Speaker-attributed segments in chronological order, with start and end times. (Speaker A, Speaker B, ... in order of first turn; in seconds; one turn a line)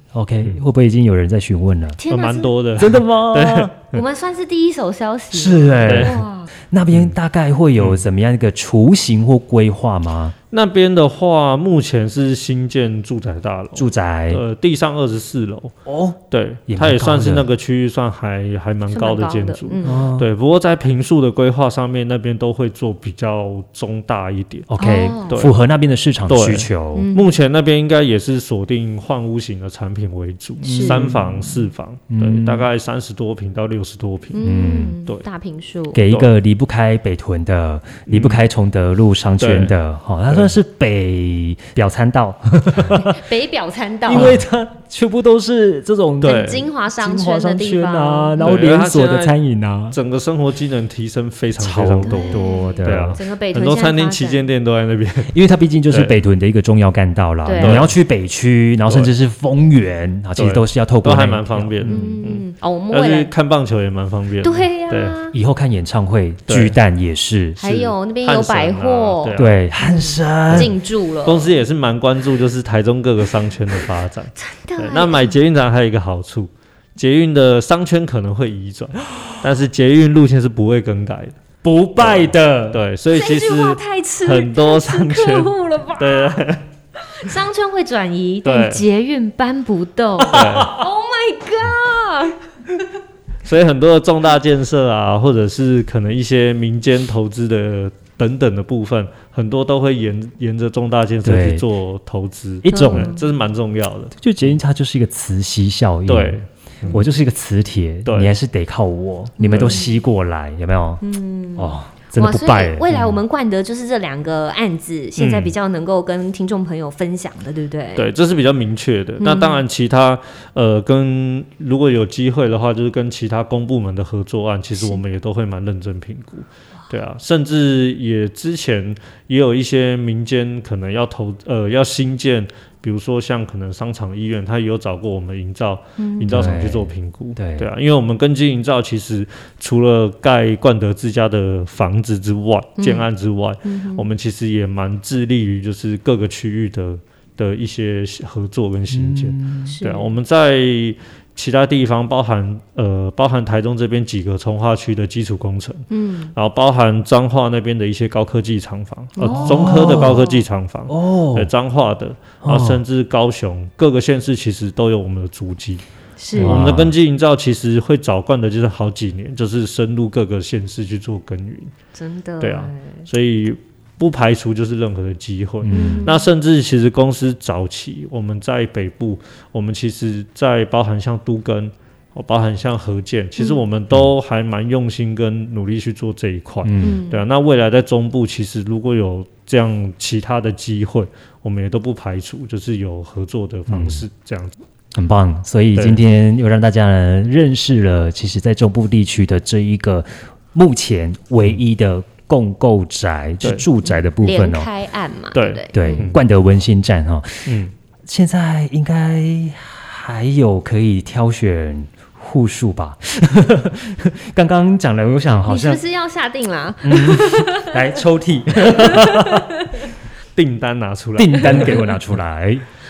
Speaker A: 0.1-2.0
Speaker B: 2.0-2.5
Speaker C: 2.1-4.0
Speaker A: 2.8-3.7
Speaker B: 3.9-6.5
Speaker A: 5.3-10.3
Speaker C: 5.8-6.2
Speaker C: 7.8-8.0
Speaker C: 10.5-15.8
Speaker A: 13.8-14.4
Speaker A: 15.8-17.4
Speaker C: 16.3-24.7
Speaker B: 18.9-20.1
Speaker A: 19.8-20.3
Speaker A: 24.7-27.1
Speaker B: 24.8-25.4
Speaker C: 26.3-34.4
Speaker B: 26.9-27.3
Speaker B: 30.6-31.1
Speaker A: 30.6-32.7
Speaker B: 34.3-36.0
Speaker A: 34.4-35.0
Speaker A: 35.9-43.2
Speaker C: 38.1-38.4
Speaker C: 39.4-39.7
Speaker C: 40.3-40.5
Speaker B: 42.9-44.4
Speaker A: 44.1-50.0
Speaker C: 44.1-44.5
Speaker C: 46.2-46.7
Speaker B: 46.2-48.6
Speaker C: 48.4-49.4
Speaker C: 49.9-55.3
Speaker A: 51.6-53.2
Speaker B: 52.0-54.4
Speaker A: 55.3-62.2
Speaker C: 55.9-56.1
Speaker B: 57.4-57.8
Speaker C: 57.6-58.0
Speaker C: 60.4-65.1
Speaker B: 61.8-63.3
Speaker B: 64.4-65.3
Speaker A: 65.3-67.6
Speaker C: 66.5-66.8
Speaker C: 67.6-69.5
Speaker B: 67.6-71.5
Speaker A: 69.3-70.7
Speaker C: 70.5-81.3
Speaker B: 74.4-75.3
Speaker A: 81.6-82.8
Speaker C: 82.0-86.6
Speaker B: 83.1-86.4
Speaker B: 87.2-92.4
Speaker C: 88.4-88.8
Speaker C: 90.3-90.7
Speaker A: 90.3-90.8
Speaker C: 93.4-104.1
Speaker A: 101.2-101.6
Speaker A: 102.6-103.1
Speaker B: 102.7-103.2
Speaker A: 104.2-106.4
Speaker C: 106.1-107.1
Speaker A: 106.9-111.0
Speaker C: 108.0-108.3
Speaker B: 109.4-110.0
Speaker C: 109.4-109.8
Speaker B: 111.0-118.1
Speaker A: 111.5-113.1
Speaker C: 115.2-115.5
Speaker C: 118.0-165.8
Speaker B: 119.2-119.6
Speaker B: 136.0-136.4
Speaker A: 136.3-137.7
Speaker B: 142.8-143.1
Speaker B: 143.6-144.0
Speaker A: 148.9-149.7
Speaker B: 149.7-150.1
Speaker B: 155.9-156.3
Speaker B: 159.2-160.4
Speaker A: 159.2-160.2
Speaker A: 160.9-161.5
Speaker A: 162.4-162.8
Speaker B: 166.2-166.7
Speaker A: 166.3-166.9
Speaker C: 166.4-171.7
Speaker B: 171.9-173.0
Speaker C: 172.4-194.6
Speaker A: 175.6-176.0
Speaker B: 175.7-176.3
Speaker A: 186.6-187.0
Speaker B: 186.8-187.2
Speaker A: 193.7-194.0
Speaker A: 194.9-204.7
Speaker C: 195.7-196.0
Speaker C: 203.4-203.7
Speaker B: 204.2-206.1
Speaker C: 205.3-206.2
Speaker A: 205.7-215.8
Speaker C: 207.4-207.7
Speaker B: 215.5-217.8
Speaker A: 216.8-219.5
Speaker B: 218.7-219.9
Speaker C: 220.3-221.8
Speaker A: 221.2-222.7